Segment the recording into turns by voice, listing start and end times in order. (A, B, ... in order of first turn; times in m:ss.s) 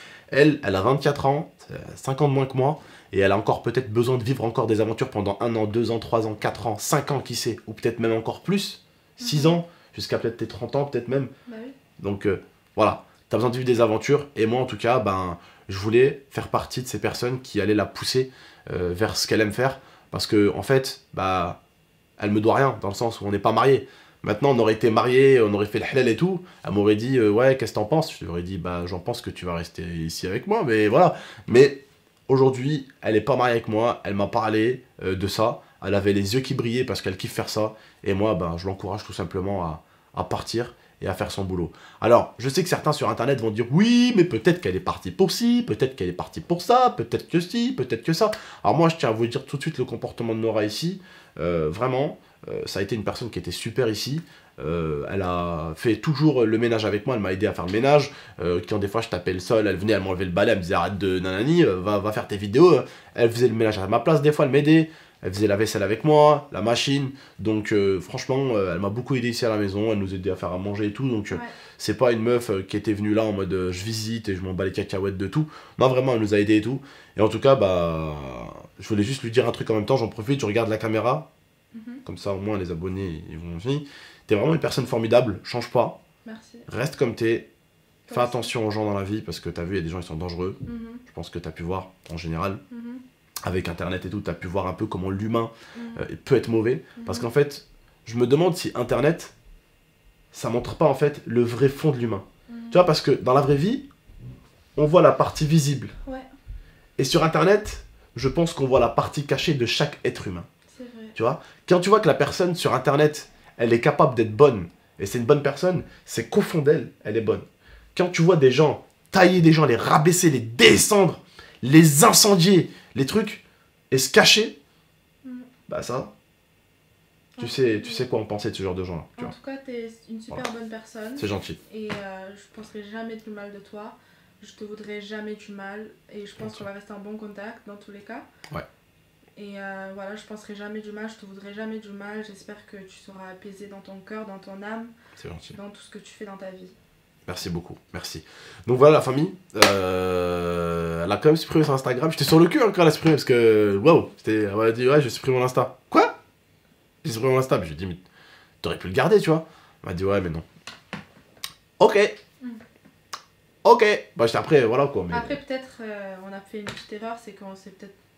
0:00.3-0:11.3 A
0:09.2-0:09.6 B
0:11.5-0:11.8 B
0:12.0-0:21.6 A
0:22.2-1:21.3 A
1:21.7-1:22.0 B
1:22.0-1:26.0 A
1:26.2-1:26.7 B
1:26.7-1:27.5 A
1:28.1-1:28.5 B
1:28.1-1:32.6 A
1:30.6-1:31.0 B
1:32.7-1:33.0 B
1:33.4-1:39.3 A
1:35.7-1:36.0 B
1:37.0-1:37.3 B
1:40.3-1:43.8 A
1:42.5-1:42.9 B
1:44.8-1:45.9 A
1:47.0-1:50.5 A
1:50.7-1:51.1 B
1:51.2-2:04.6 A
2:05.7-2:06.1 A
2:07.4-2:08.0 B
2:07.4-2:09.3 A
2:09.2-2:18.3 B
2:11.2-2:11.6 A
2:16.4-2:16.6 A
2:19.4-2:24.9 B
2:25.2-2:25.6 A
2:25.5-2:26.7 B
2:27.3-2:36.1 A
2:37.0-2:38.0 A
2:38.6-2:40.4 A
2:41.8-2:42.2 A
2:43.6-2:45.4 A
2:45.1-2:48.0 B